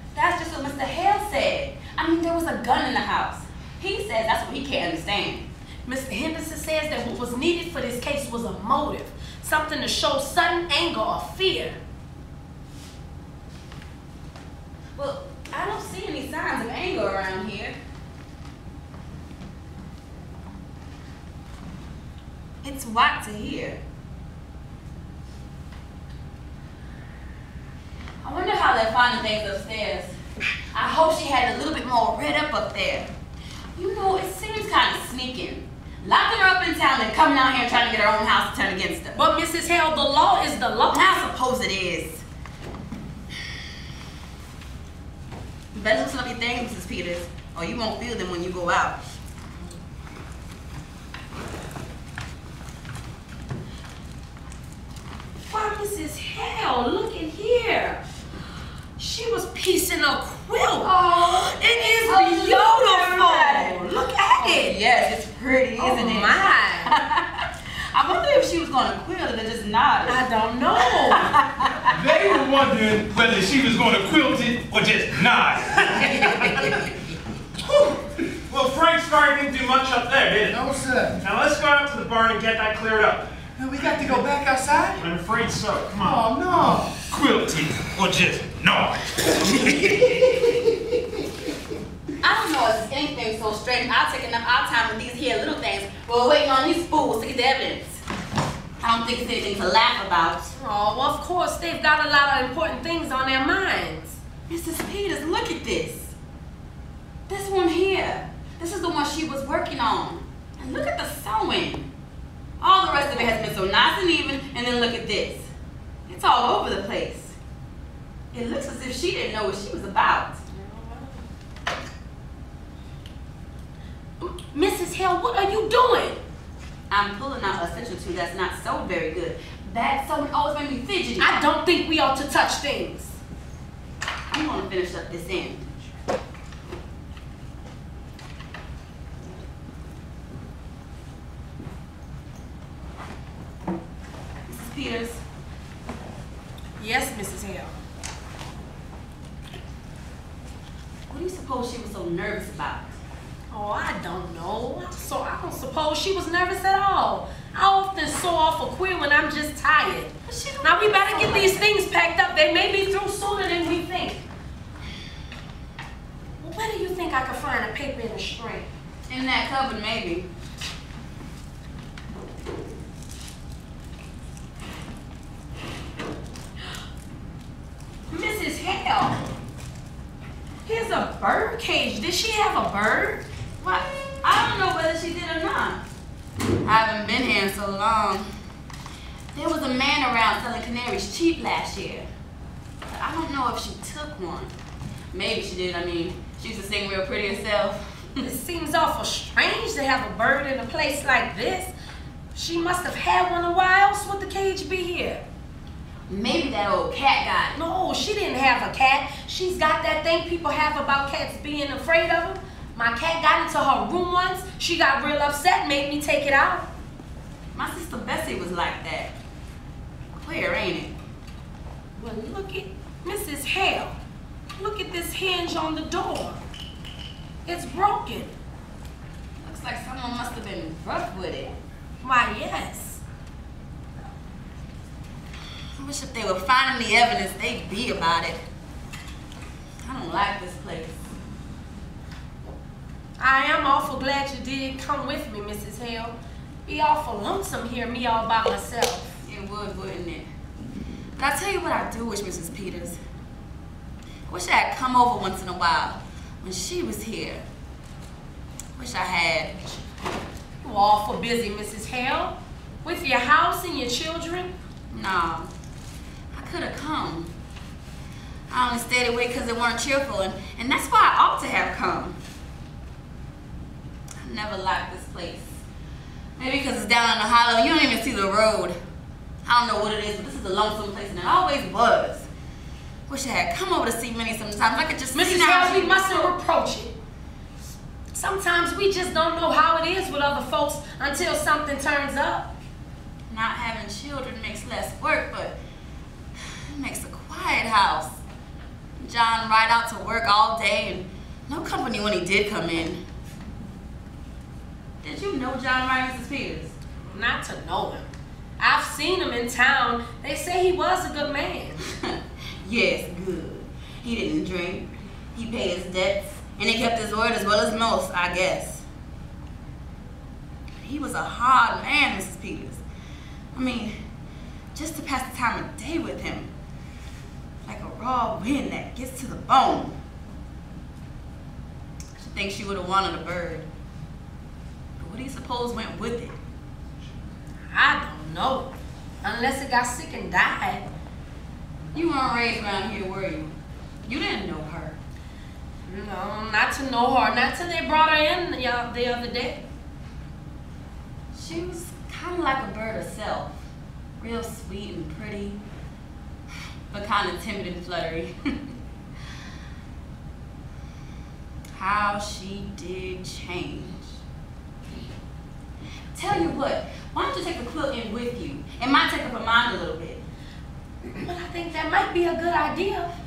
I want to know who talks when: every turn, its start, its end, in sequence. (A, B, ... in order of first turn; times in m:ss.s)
0:00.1-0:05.5 A
0:05.9-0:11.8 B
0:15.0-0:17.8 A
0:22.6-0:23.8 A
0:28.2-0:30.1 A
0:30.7-0:33.1 A
0:33.8-0:39.2 A
0:39.2-0:41.1 B
0:40.9-0:42.2 A
0:45.7-0:49.0 A
0:55.4-0:58.0 B
0:59.0-1:04.8 B
1:00.8-1:10.2 A
1:05.8-1:06.9 B
1:10.1-1:11.3 B
1:11.0-1:11.9 A
1:11.9-1:16.9 C
1:15.9-1:16.7 D
1:17.6-1:20.6 D
1:20.5-1:21.2 E
1:21.2-1:23.3 D
1:23.6-1:25.0 E
1:25.0-1:26.2 D
1:26.0-1:27.0 E
1:27.1-1:30.3 C
1:32.2-1:38.0 A
1:38.8-1:40.5 A
1:40.5-1:44.2 B
1:44.5-1:46.1 A
1:47.3-1:51.9 A
1:52.6-1:55.5 A
1:56.1-1:57.4 A
1:58.3-2:00.4 A
2:00.5-2:01.2 B
2:04.2-2:06.2 B
2:06.9-2:11.4 A
2:11.2-2:13.2 B
2:14.3-2:15.7 A
2:24.5-2:25.2 A
2:26.8-2:27.7 B
2:31.1-2:32.9 A
2:33.5-2:44.2 B
2:40.3-2:41.6 A
2:46.4-2:48.7 B
2:49.1-2:50.3 A
2:58.1-2:59.2 B
3:00.6-3:03.2 B
3:03.6-3:05.8 A
3:06.6-3:08.3 A
3:09.3-3:12.1 A
3:12.8-3:14.5 A
3:15.1-3:18.3 A
3:18.2-3:21.7 B
3:22.3-3:25.2 B
3:26.1-3:27.6 A
3:27.5-3:36.7 B
3:37.5-3:39.2 A
3:40.2-3:41.0 A
3:42.0-3:44.0 B
3:44.6-3:46.4 B
3:47.5-3:48.3 B
3:49.4-3:51.6 A
3:52.0-3:53.0 B
3:55.8-3:58.4 A
3:59.8-4:01.0 A
4:03.2-4:09.2 B
4:09.2-4:10.3 A
4:11.2-4:13.0 A
4:14.3-4:17.5 A
4:18.8-4:19.6 A
4:20.6-4:24.5 B
4:24.9-4:25.5 A
4:26.3-4:27.3 A
4:28.5-4:32.2 A
4:34.2-4:35.5 A
4:36.4-4:38.8 A
4:39.4-4:42.3 A
4:43.1-4:46.3 A
4:45.1-4:47.0 B
4:48.1-4:52.5 B
4:53.3-4:55.6 A
4:56.7-4:58.2 A
4:59.0-5:03.0 A
5:05.0-5:06.7 A
5:07.0-5:08.1 B
5:08.6-5:11.8 B
5:11.9-5:18.8 A
5:20.8-5:22.8 A
5:23.5-5:24.0 A
5:24.8-5:26.5 A
5:27.6-5:30.0 A
5:32.2-5:33.7 A
5:35.0-5:36.4 A
5:37.7-5:40.9 B
5:41.9-5:45.0 A
5:45.9-5:49.6 B
5:51.3-5:53.6 A
5:54.2-5:55.6 A
5:56.9-5:58.7 A
6:01.8-6:04.2 A
6:06.2-6:10.2 A
6:11.2-6:13.1 B